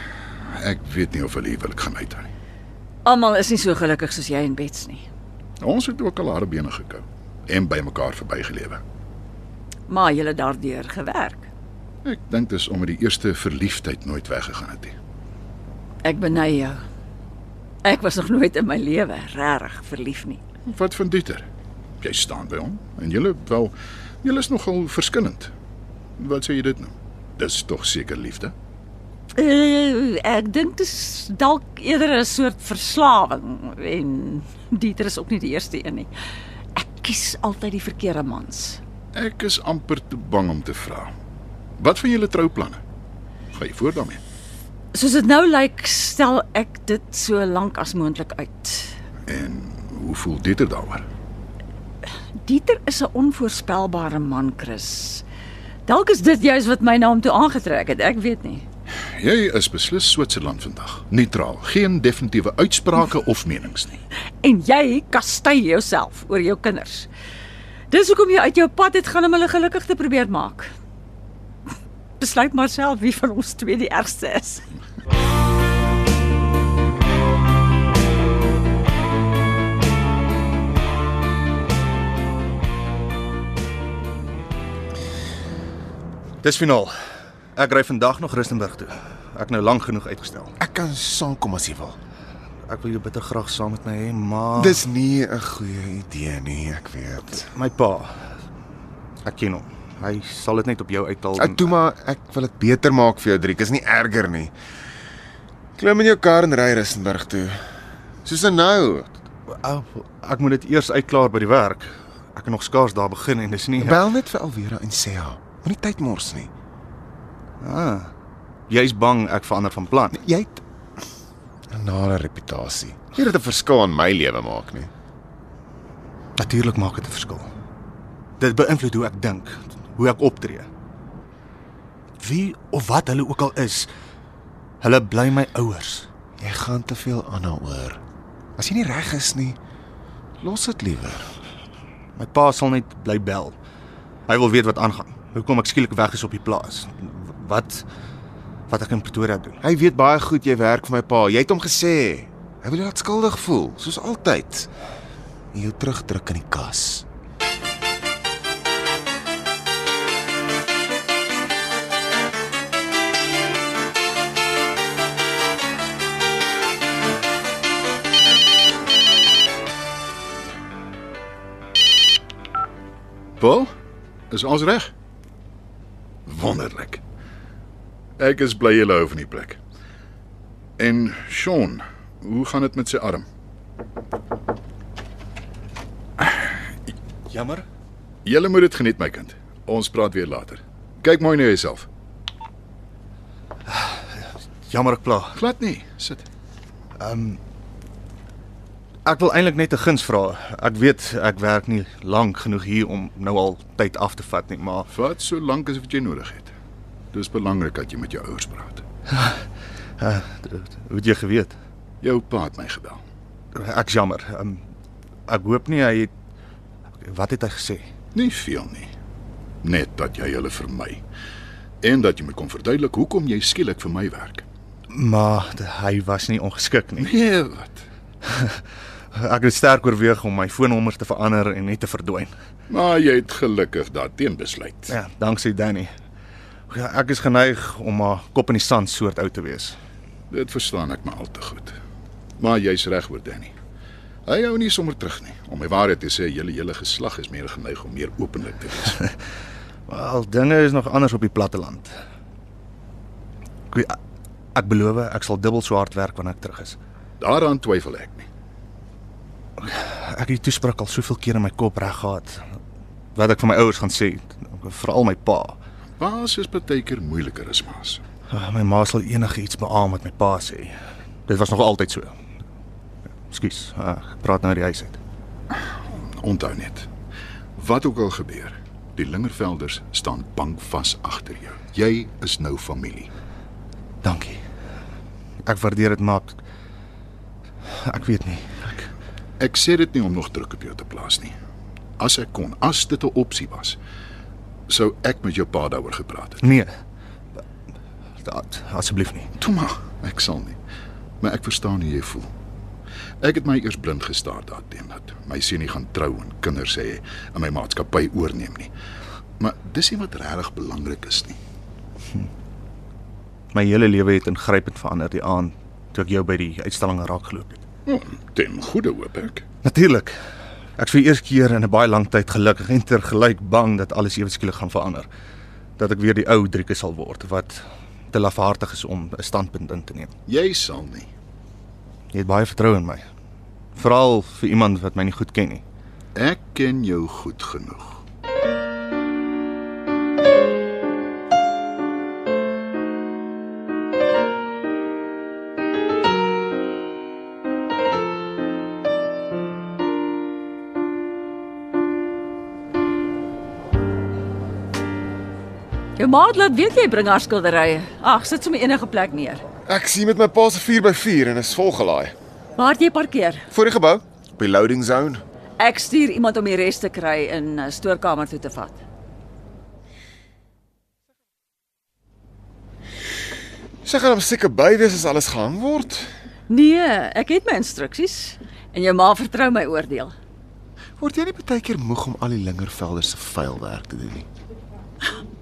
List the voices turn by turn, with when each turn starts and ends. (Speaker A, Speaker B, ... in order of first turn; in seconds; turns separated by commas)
Speaker A: 0.5-2.3, Speaker B: 3.0-5.0, Speaker A: 5.6-8.8, Speaker B: 9.9-11.5, Speaker A: 12.0-14.9, Speaker B: 16.0-16.8, Speaker B: 17.8-20.4, Speaker A: 20.6-21.4, Speaker A: 22.0-25.5, Speaker A: 26.2-28.5, Speaker B: 29.4-36.1, Speaker B: 36.8-38.8, Speaker A: 39.1-41.1, Speaker A: 41.8-42.8, Speaker A: 43.5-44.2, Speaker B: 44.9-48.9, Speaker A: 49.3-51.1, Speaker B: 52.4-55.2, Speaker B: 55.9-58.6, Speaker A: 59.2-64.0, Speaker B: 64.4-67.1, Speaker B: 67.9-70.7, Speaker B: 72.2-74.6, Speaker C: 86.4-86.9, Speaker C: 87.6-90.5, Speaker D: 90.6-92.0, Speaker C: 92.7-94.8, Speaker D: 94.6-97.4, Speaker C: 97.4-98.1, Speaker C: 99.2-101.7, Speaker D: 101.4-104.5, Speaker D: 105.8-107.6, Speaker D: 108.2-109.2, Speaker C: 109.5-114.0, Speaker D: 113.8-116.5, Speaker C: 117.6-118.1, Speaker C: 118.7-120.2, Speaker D: 120.2-120.6, Speaker D: 121.7-124.9, Speaker C: 126.4-127.5, Speaker C: 128.4-130.7, Speaker C: 132.2-133.9, Speaker C: 134.8-136.1, Speaker D: 136.4-138.0, Speaker D: 138.6-139.6, Speaker D: 140.4-141.3, Speaker C: 142.2-143.6, Speaker C: 144.3-147.9, Speaker C: 148.7-149.6, Speaker D: 149.6-154.7, Speaker D: 155.5-157.1, Speaker A: 173.4-173.7, Speaker A: 174.3-174.9, Speaker A: 176.3-177.0, Speaker A: 178.2-179.6, Speaker A: 180.8-183.3, Speaker C: 187.3-187.7, Speaker A: 188.2-191.9, Speaker C: 193.7-194.0, Speaker C: 194.7-195.4, Speaker A: 195.3-196.3, Speaker C: 197.0-197.4, Speaker C: 199.1-204.9, Speaker A: 204.9-206.5, Speaker A: 207.1-208.8, Speaker C: 210.0-211.6, Speaker A: 212.0-213.0, Speaker C: 213.6-214.7, Speaker C: 215.3-216.1, Speaker C: 217.0-217.8, Speaker A: 218.1-218.9, Speaker A: 219.6-221.0, Speaker A: 221.8-224.4, Speaker C: 224.9-227.1, Speaker A: 227.0-227.8, Speaker C: 228.2-228.6, Speaker C: 229.1-232.3, Speaker A: 232.7-234.9, Speaker C: 234.9-235.9, Speaker C: 236.7-239.8, Speaker A: 240.3-241.8, Speaker A: 242.4-243.5, Speaker A: 244.3-249.0, Speaker C: 249.9-251.9, Speaker C: 254.6-256.8, Speaker A: 257.2-258.3, Speaker C: 259.6-262.4, Speaker C: 263.2-265.6, Speaker A: 266.0-268.0, Speaker C: 268.3-270.7, Speaker C: 271.3-272.1, Speaker C: 273.3-275.0, Speaker A: 275.5-276.9, Speaker A: 277.6-283.1, Speaker C: 284.0-284.4, Speaker C: 285.4-286.4, Speaker C: 287.9-288.9, Speaker A: 289.4-291.3, Speaker A: 292.0-293.8, Speaker A: 294.7-296.4, Speaker C: 296.4-296.7, Speaker C: 298.2-299.3, Speaker A: 299.4-300.6, Speaker A: 301.2-302.3, Speaker A: 303.2-308.7, Speaker A: 309.4-311.4, Speaker C: 313.5-317.6, Speaker A: 317.9-319.4, Speaker C: 319.6-320.1, Speaker C: 320.8-325.1, Speaker C: 325.8-330.1, Speaker A: 330.3-331.1, Speaker C: 332.1-333.0, Speaker C: 333.8-335.6, Speaker A: 336.2-338.0, Speaker B: 356.0-359.4, Speaker D: 359.7-362.1, Speaker B: 362.6-363.5, Speaker D: 363.5-365.2, Speaker B: 365.6-368.8, Speaker D: 373.9-376.1, Speaker B: 376.5-380.1, Speaker D: 381.0-384.3